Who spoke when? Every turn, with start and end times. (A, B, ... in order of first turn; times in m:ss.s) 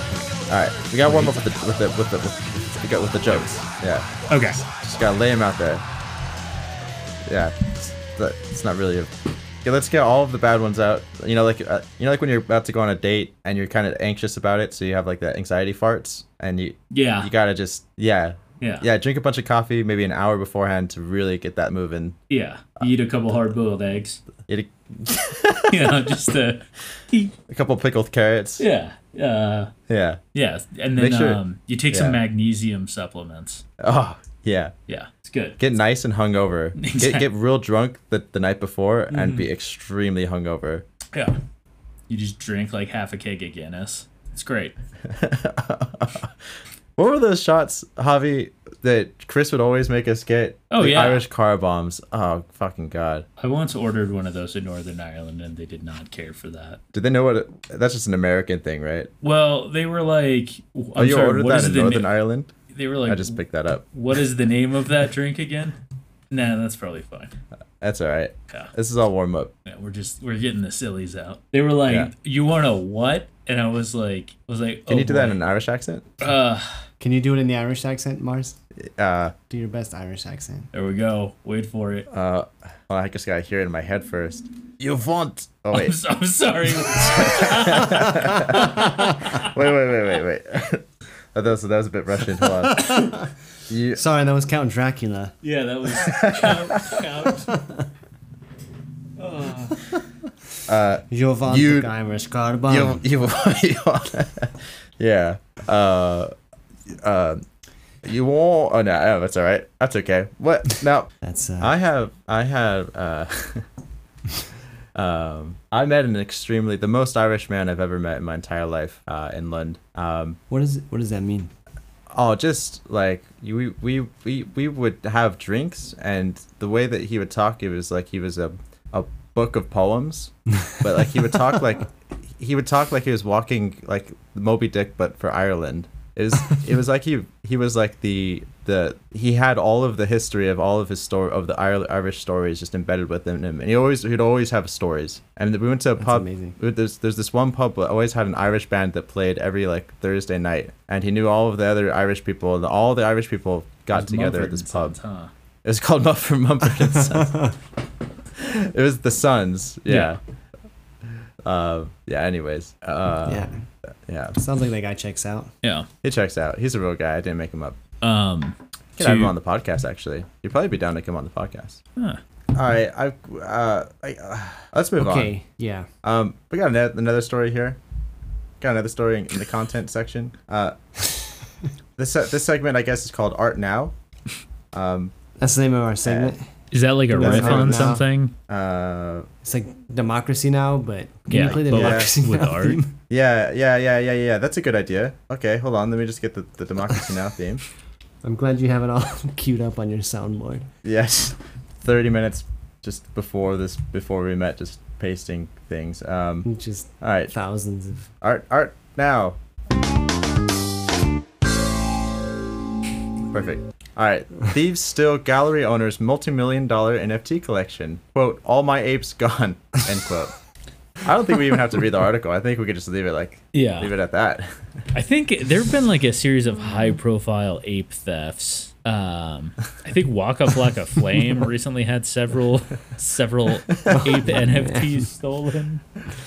0:00.5-0:04.1 A
0:01.0-0:01.4 B
0:04.3-0:04.6 B
0:04.8-0:05.8 A
0:07.2-0:09.1 A
0:09.6-0:22.2 A
0:16.9-0:17.3 B
0:18.6-0:18.9 B
0:22.3-0:24.2 B
0:24.5-0:26.1 A
0:25.7-0:27.3 B
0:27.5-0:28.6 A
0:28.6-0:29.7 B
0:29.9-0:30.2 A
0:30.3-0:33.6 B
0:30.9-0:32.2 A
0:33.8-0:34.7 A
0:34.9-0:35.6 B
0:35.6-0:40.8 A
0:36.8-0:37.2 B
0:39.1-0:39.5 B
0:42.1-0:44.7 B
0:45.1-0:46.3 A
0:47.0-0:53.3 A
0:50.7-0:51.2 B
0:53.4-0:56.8 B
0:56.9-0:59.1 A
0:59.2-1:03.4 B
1:01.0-1:02.5 A
1:03.0-1:03.8 A
1:03.9-1:05.8 B
1:06.3-1:07.3 B
1:07.8-1:09.5 A
1:09.6-1:15.4 B
1:11.9-1:12.1 A
1:14.9-1:16.0 A
1:16.2-1:16.6 B
1:17.0-1:18.6 C
1:19.0-1:19.4 A
1:19.5-1:20.7 C
1:20.7-1:22.1 B
1:22.1-1:26.0 A
1:25.7-1:29.4 B
1:27.6-1:28.8 A
1:29.4-1:32.8 A
1:32.5-1:33.2 C
1:33.7-1:34.0 A
1:33.9-1:35.3 C
1:35.4-1:37.5 B
1:37.5-1:37.8 C
1:39.2-1:39.8 B
1:40.7-1:41.9 A
1:41.1-1:43.0 C
1:42.6-1:46.3 A
1:47.0-1:47.4 A
1:48.0-1:53.6 A
1:51.2-1:51.8 C
1:54.9-2:00.4 A
2:00.5-2:01.5 C
2:02.1-2:11.8 A
2:12.4-2:35.0 A
2:26.0-2:26.6 C
2:33.9-2:35.3 B
2:35.6-2:37.4 A
2:36.7-2:37.5 C
2:38.4-2:40.2 A
2:39.9-2:40.1 B
2:41.4-2:43.5 A
2:43.3-2:43.6 C
2:44.1-2:44.4 A
2:44.4-2:45.5 C
2:45.6-2:45.9 B
2:46.0-2:47.8 A
2:48.0-2:49.3 B
2:49.0-2:51.8 A
2:52.5-2:55.3 A
2:55.0-2:55.9 C
2:56.0-2:57.8 A
2:58.6-3:00.7 A
3:02.0-3:03.9 A
3:04.7-3:05.1 A
3:05.4-3:06.4 C
3:06.0-3:06.4 A
3:06.7-3:08.3 B
3:07.1-3:08.0 C
3:07.2-3:07.9 A
3:08.5-3:09.3 A
3:09.4-3:13.0 C
3:11.3-3:12.8 B
3:11.7-3:12.1 A
3:13.1-3:17.6 A
3:18.2-3:20.7 C
3:20.8-3:26.5 A
3:26.4-3:28.1 C
3:27.0-3:27.3 A
3:28.2-3:29.4 A
3:33.3-3:40.3 A
3:41.0-3:44.5 A
3:43.5-3:43.9 B
3:44.9-3:55.8 B
3:53.9-3:55.0 C